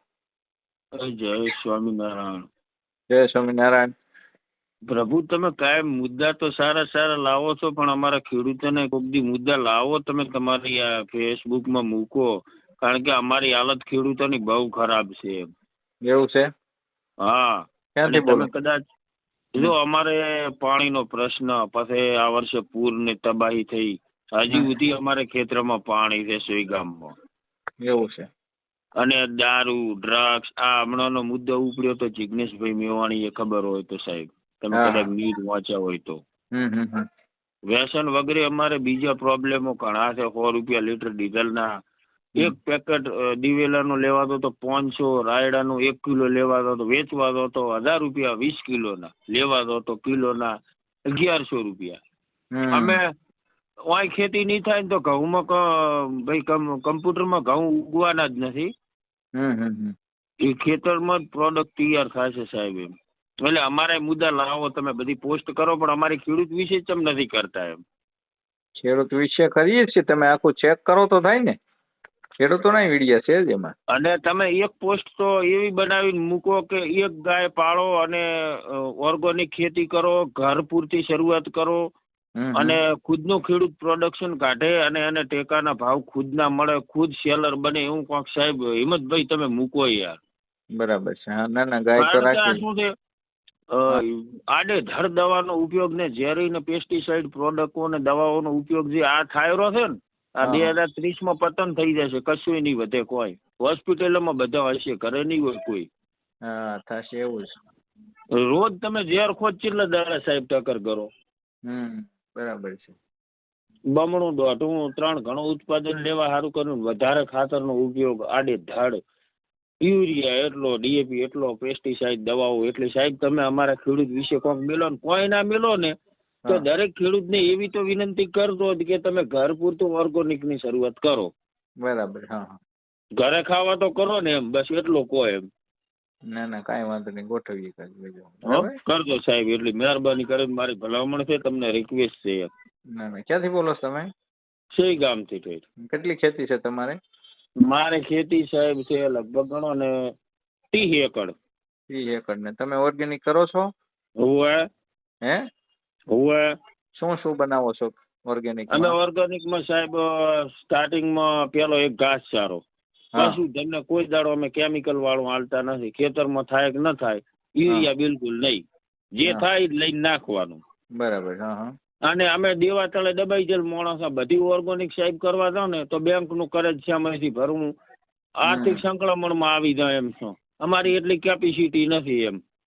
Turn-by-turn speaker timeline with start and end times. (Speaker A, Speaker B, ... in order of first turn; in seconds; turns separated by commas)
Speaker A: 1.0-2.5, Speaker B: 3.1-3.9, Speaker A: 4.9-12.3, Speaker A: 12.8-15.5, Speaker B: 16.0-16.5, Speaker A: 17.2-18.8, Speaker B: 17.9-18.5, Speaker A: 19.6-27.1, Speaker B: 27.8-28.3, Speaker A: 29.0-36.2, Speaker B: 34.7-35.0, Speaker B: 36.5-37.0, Speaker A: 37.7-41.7, Speaker A: 42.4-50.5, Speaker A: 51.1-52.0, Speaker B: 52.5-53.0, Speaker A: 52.7-53.1, Speaker A: 53.9-58.7, Speaker B: 59.4-59.9, Speaker A: 60.4-62.9, Speaker A: 63.4-67.8, Speaker B: 68.8-71.6, Speaker B: 72.4-73.7, Speaker A: 73.9-81.8, Speaker B: 82.4-82.8, Speaker A: 82.5-90.2, Speaker B: 90.8-92.6, Speaker A: 92.0-92.9, Speaker A: 93.7-105.9, Speaker B: 100.4-100.8, Speaker B: 106.5-107.5, Speaker A: 108.4-111.1, Speaker B: 111.7-113.0, Speaker A: 114.0-119.0, Speaker A: 119.8-125.9, Speaker A: 126.5-131.3, Speaker B: 131.8-132.6, Speaker A: 133.2-135.4, Speaker B: 136.3-138.8, Speaker A: 138.5-142.5, Speaker B: 143.0-144.1, Speaker A: 144.8-145.6, Speaker B: 145.8-147.0, Speaker A: 147.7-149.9, Speaker A: 150.7-151.3, Speaker B: 151.9-153.7, Speaker A: 154.2-154.6, Speaker A: 156.1-156.5, Speaker B: 156.9-158.9, Speaker A: 158.7-162.6, Speaker A: 163.2-168.6, Speaker A: 169.2-170.6, Speaker B: 171.0-171.7, Speaker A: 172.1-177.7, Speaker A: 178.4-182.4, Speaker B: 178.5-178.8